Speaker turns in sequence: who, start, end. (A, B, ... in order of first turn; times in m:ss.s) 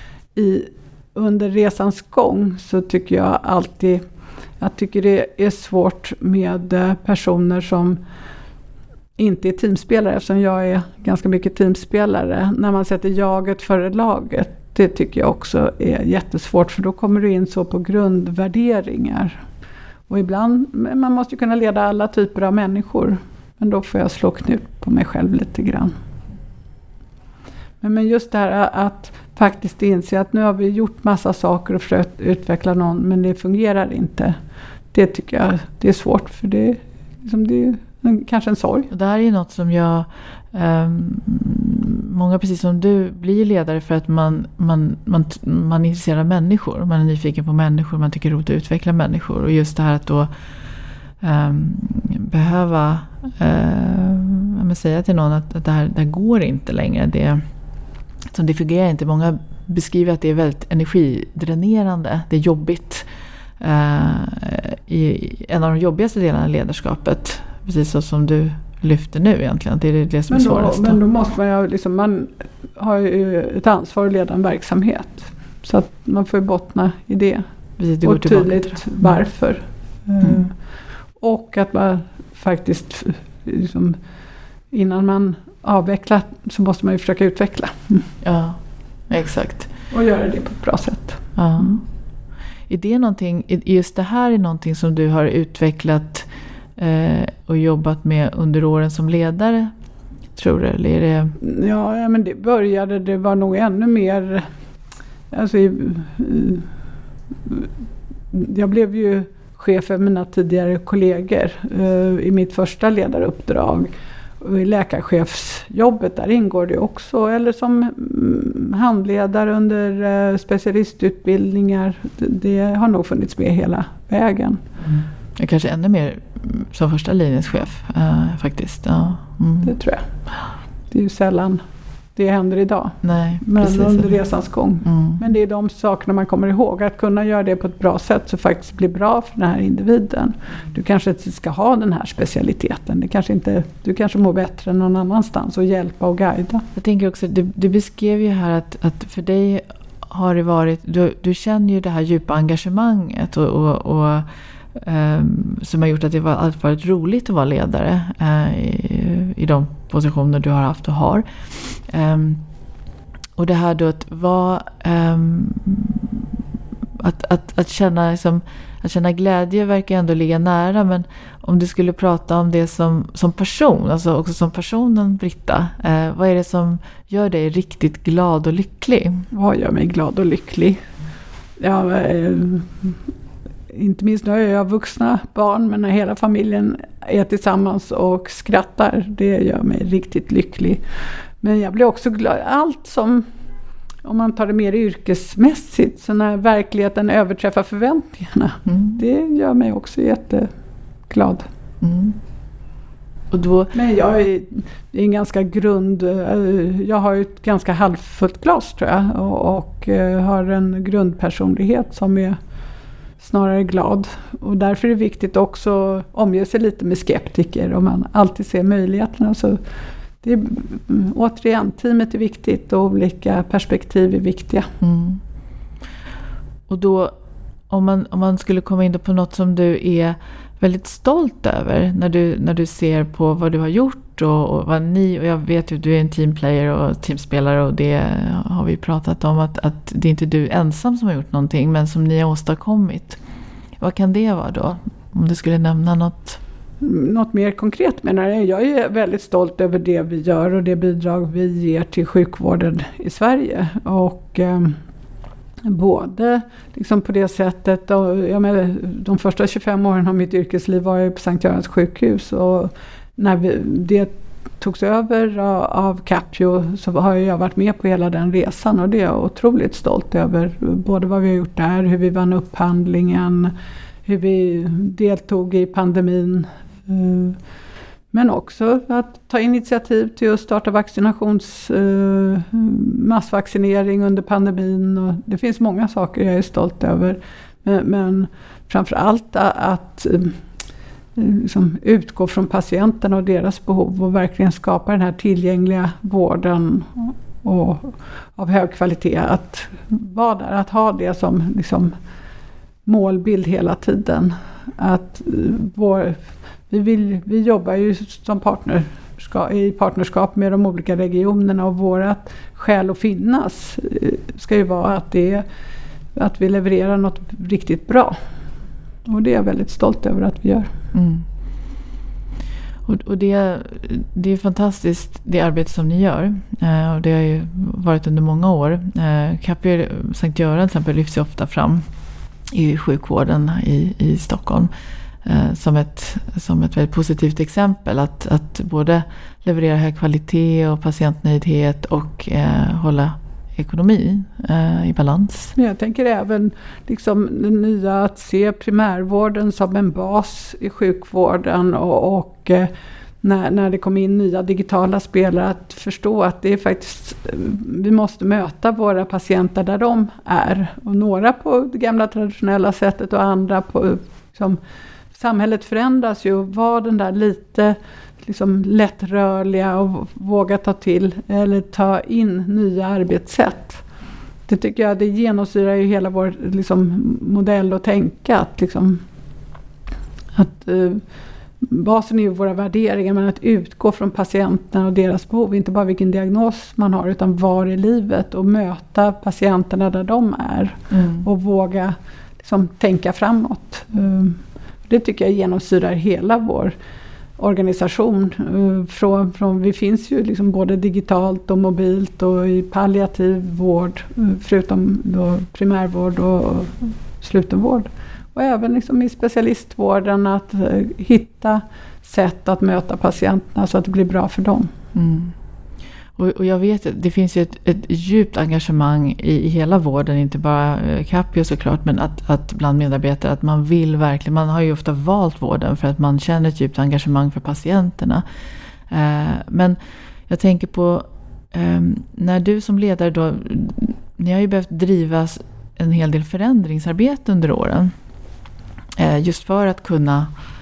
0:00.4-0:04.0 A
0:04.6-0:08.0 A
0:09.2-0:19.4 A
0:20.1-0:25.9 A
0:27.8-0:34.4 A
0:34.9-0:38.9 A
0:38.9-0:50.3 B
0:51.2-0:57.4 B
0:58.3-1:03.1 B
1:03.6-1:11.0 B
1:10.3-1:17.4 A
1:17.8-1:19.2 B
1:18.0-1:20.6 A
1:21.2-1:24.0 A
1:24.7-1:28.1 A
1:28.2-1:29.7 B
1:29.9-1:31.8 A
1:31.4-1:31.8 B
1:32.7-1:39.7 B
1:40.4-1:41.3 B
1:41.4-1:44.5 A
1:45.3-1:46.7 A
1:48.3-2:04.6 A
2:04.8-2:09.8 B
2:09.6-2:10.1 A
2:10.9-2:11.6 A
2:12.2-2:26.6 A
2:13.0-2:14.2 B
2:14.8-2:15.2 B
2:26.8-2:42.4 B
2:43.4-2:46.3 B
2:47.0-2:59.3 B
2:59.3-3:00.8 A
3:01.6-3:02.9 A
3:03.7-3:10.8 A
3:11.4-3:13.2 A
3:14.0-3:20.5 A
3:18.7-3:19.0 B
3:21.1-3:21.5 A
3:21.8-3:22.2 B
3:23.3-3:23.7 B
3:23.7-3:32.4 A
3:33.2-3:39.6 A
3:40.2-3:44.7 A
3:44.8-3:45.2 B
3:46.7-3:47.1 B
3:47.7-4:03.2 B
4:03.8-4:06.4 B
4:06.8-4:14.8 A
4:15.7-4:33.5 A
4:34.1-4:37.4 A
4:38.1-4:50.4 A
4:51.2-5:01.9 A
5:02.9-5:06.2 A
5:06.7-5:15.4 A
5:16.2-5:18.2 A
5:19.1-5:20.7 A
5:20.9-5:21.2 B
5:22.8-5:31.8 B
5:32.5-5:34.7 B
5:35.2-5:45.5 B
5:45.6-5:52.7 A
5:53.2-6:04.6 A
6:05.1-6:13.8 A
6:14.5-6:19.0 A
6:20.4-6:21.0 A
6:21.6-6:36.7 A
6:30.9-6:31.2 B
6:37.4-6:54.7 A
6:54.9-6:55.4 B
6:56.2-7:08.2 B
7:08.9-7:09.8 B
7:10.3-7:17.9 B
7:19.0-7:20.3 B